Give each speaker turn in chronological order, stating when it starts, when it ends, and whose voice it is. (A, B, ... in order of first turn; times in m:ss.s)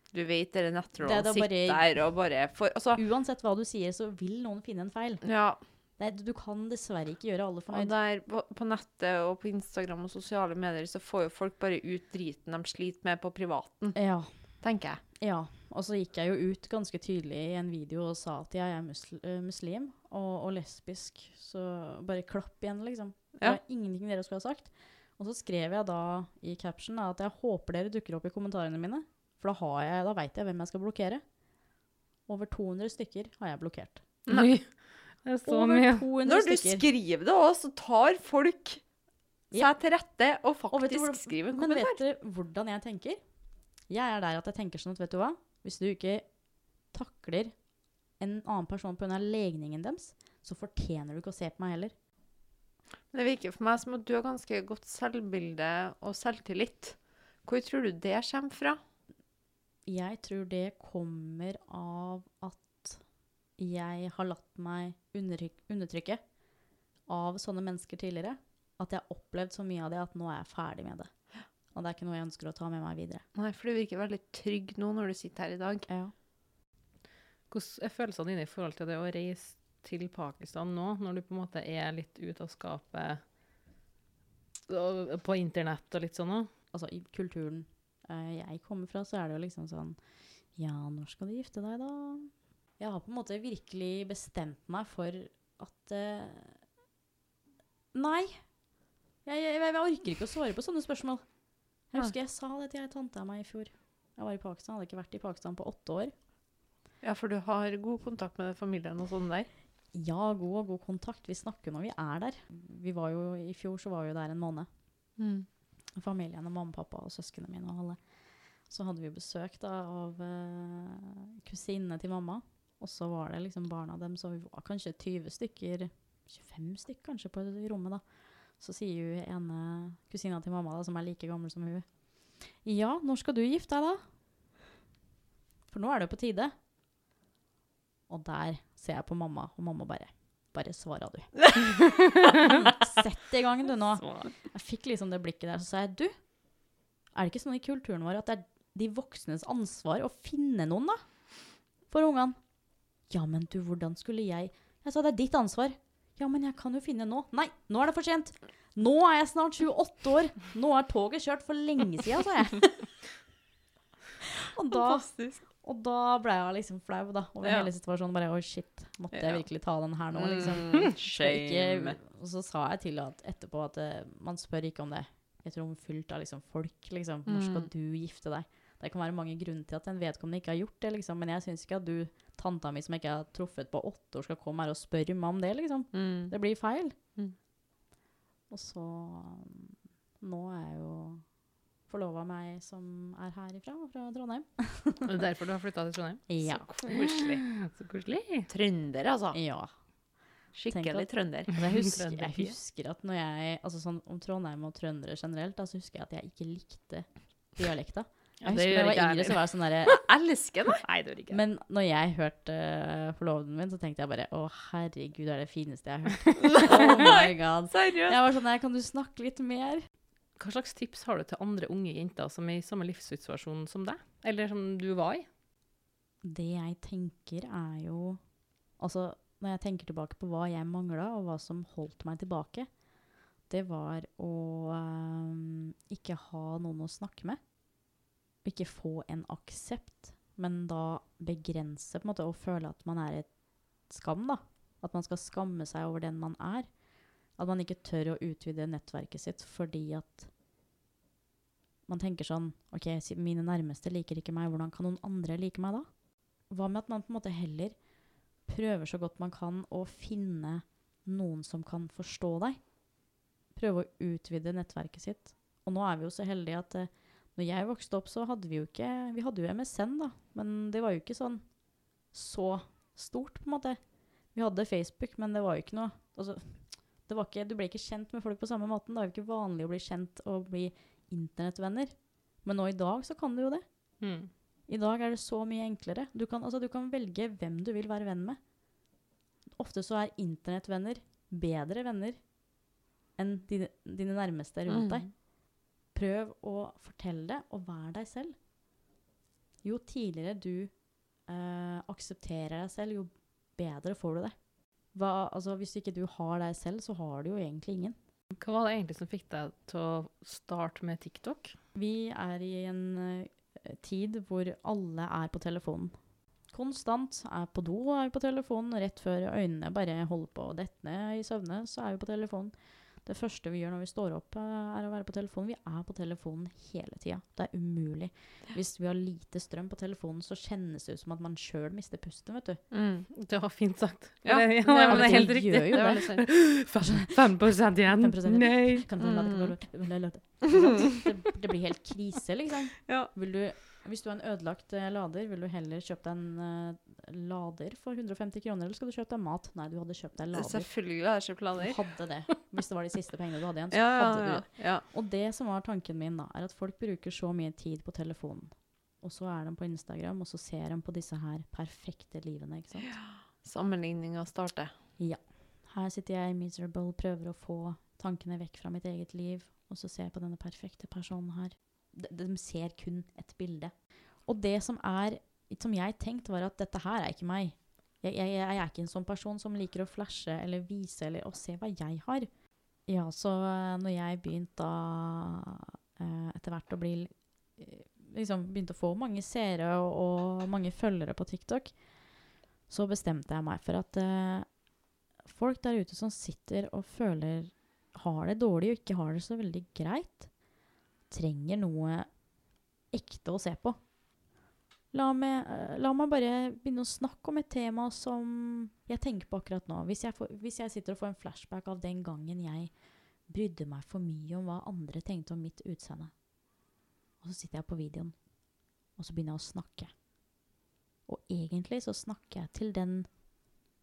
0:00.1-0:03.0 A
0:01.0-0:02.1 B
0:03.0-0:07.9 B
0:05.2-0:05.6 A
0:07.7-0:15.0 A
0:14.0-0:14.7 B
0:15.2-0:31.3 B
0:32.3-0:34.3 B
0:34.3-0:34.5 A
0:34.3-0:36.0 C
0:35.4-0:36.8 B
0:36.2-0:38.9 A
0:39.5-0:42.0 A
0:39.5-0:39.8 B
0:40.7-0:52.0 B
0:53.1-0:58.8 A
0:59.9-1:06.4 B
1:07.0-1:13.3 B
1:13.4-1:15.9 A
1:15.9-1:16.1 B
1:17.5-1:23.3 C
1:24.7-1:26.5 C
1:26.7-1:36.6 B
1:37.9-1:38.7 B
1:39.2-1:46.1 B
1:47.0-1:49.5 A
1:49.9-1:54.7 B
1:55.2-1:55.5 A
1:55.9-2:14.0 B
2:15.7-2:16.5 B
2:18.1-2:43.0 B
2:24.0-2:24.3 C
2:44.5-3:07.1 B
2:44.7-2:45.4 A
2:47.4-2:47.7 A
2:49.1-2:52.0 A
2:57.3-2:57.7 A
3:05.9-3:07.4 A
3:08.5-3:11.3 B
3:11.9-3:15.1 B
3:15.0-3:18.5 C
3:16.3-3:16.9 B
3:16.4-3:17.4 A
3:18.5-3:19.4 A
3:19.3-3:19.7 B
3:20.5-3:21.6 A
3:20.7-3:30.0 B
3:21.6-3:22.5 C
3:28.4-3:29.5 C
3:29.8-3:30.9 A
3:30.8-3:31.4 C
3:31.3-3:39.9 B
3:36.4-3:38.2 A
3:40.4-3:45.3 C
3:46.2-3:52.9 B
3:53.4-3:57.6 B
3:58.4-4:10.3 B
4:11.9-4:22.8 B
4:23.5-4:44.1 B
4:44.0-4:44.3 C
4:44.7-4:48.4 B
4:49.5-4:52.4 B
4:53.2-4:55.3 B
4:54.7-4:55.1 A
4:55.8-4:58.4 B
4:59.6-5:08.0 B
5:08.4-5:11.6 C
5:11.7-5:32.6 B
5:32.7-5:33.1 A
5:33.1-5:38.9 C
5:34.2-5:36.3 A
5:34.8-5:36.1 B
5:36.7-6:03.0 B
5:39.0-5:39.9 A
5:40.5-5:41.0 A
5:50.3-5:52.0 A
5:53.7-5:54.8 A
6:02.8-6:04.7 A
6:05.0-6:31.9 B
6:32.7-6:34.6 B
6:35.2-6:40.4 B
6:41.1-6:42.3 B
6:42.9-6:43.9 B
6:44.9-6:56.2 B
6:57.2-6:58.4 B
6:58.9-7:00.0 B
7:01.1-7:03.2 B